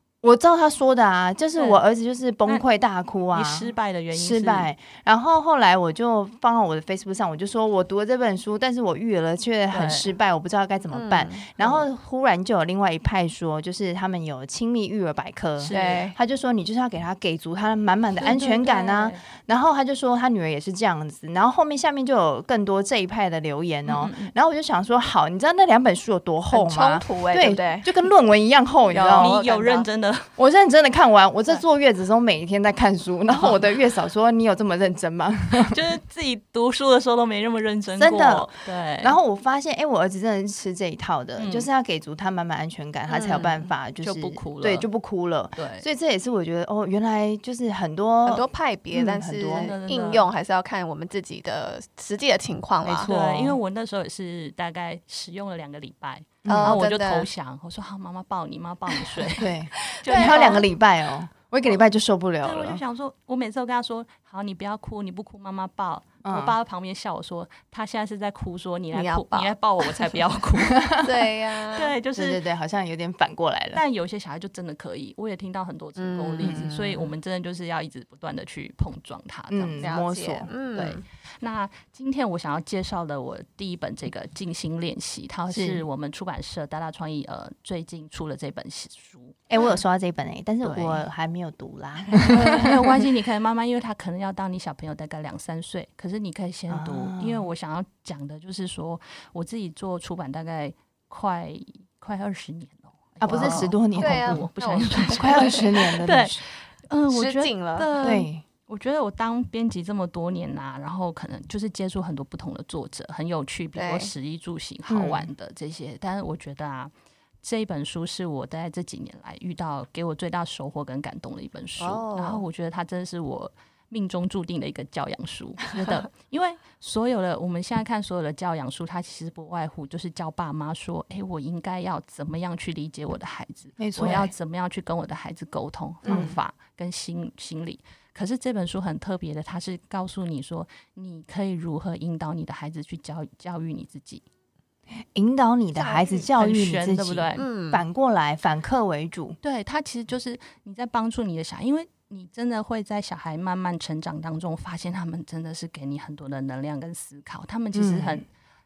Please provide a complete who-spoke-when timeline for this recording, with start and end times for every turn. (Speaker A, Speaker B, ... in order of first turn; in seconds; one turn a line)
Speaker A: 0.2-29.4
Speaker B: 1.6-1.8
Speaker B: 3.3-4.7
Speaker B: 9.7-10.1
Speaker C: 10.9-11.5
Speaker B: 15.6-16.1
Speaker C: 15.7-16.1
Speaker B: 18.1-19.2
Speaker B: 23.9-24.3
Speaker C: 26.5-27.9
Speaker C: 28.9-29.9
Speaker B: 29.2-30.3
Speaker A: 30.4-35.8
Speaker B: 35.6-39.2
Speaker A: 38.0-49.7
Speaker B: 41.4-41.7
Speaker C: 43.1-43.7
Speaker B: 44.0-44.9
Speaker B: 45.5-45.8
Speaker C: 48.2-53.1
Speaker B: 49.5-50.2
Speaker A: 52.8-53.6
Speaker B: 53.0-60.7
Speaker A: 56.4-56.8
Speaker C: 56.4-57.3
Speaker A: 59.4-62.8
Speaker C: 59.9-60.6
Speaker B: 62.4-71.1
Speaker A: 66.2-66.5
Speaker C: 68.9-70.0
Speaker C: 70.8-71.9
Speaker B: 71.7-72.4
Speaker A: 72.1-73.8
Speaker B: 73.7-79.8
Speaker C: 76.0-77.0
Speaker A: 76.4-77.0
Speaker A: 79.5-80.5
Speaker C: 79.8-81.0
Speaker B: 80.7-89.4
Speaker A: 89.5-93.0
Speaker B: 90.6-91.0
Speaker B: 92.2-144.2
Speaker A: 96.7-97.5
Speaker A: 103.2-106.4
Speaker C: 103.3-105.8
Speaker C: 107.1-108.1
Speaker A: 108.0-108.4
Speaker C: 113.7-114.1
Speaker A: 114.9-115.3
Speaker C: 121.8-122.4
Speaker A: 133.8-134.3
Speaker C: 136.0-136.3
Speaker A: 136.1-136.4
Speaker A: 144.9-149.4
Speaker C: 145.8-146.2
Speaker B: 146.3-147.5
Speaker C: 147.4-147.8
Speaker B: 149.4-158.3
Speaker A: 157.7-158.2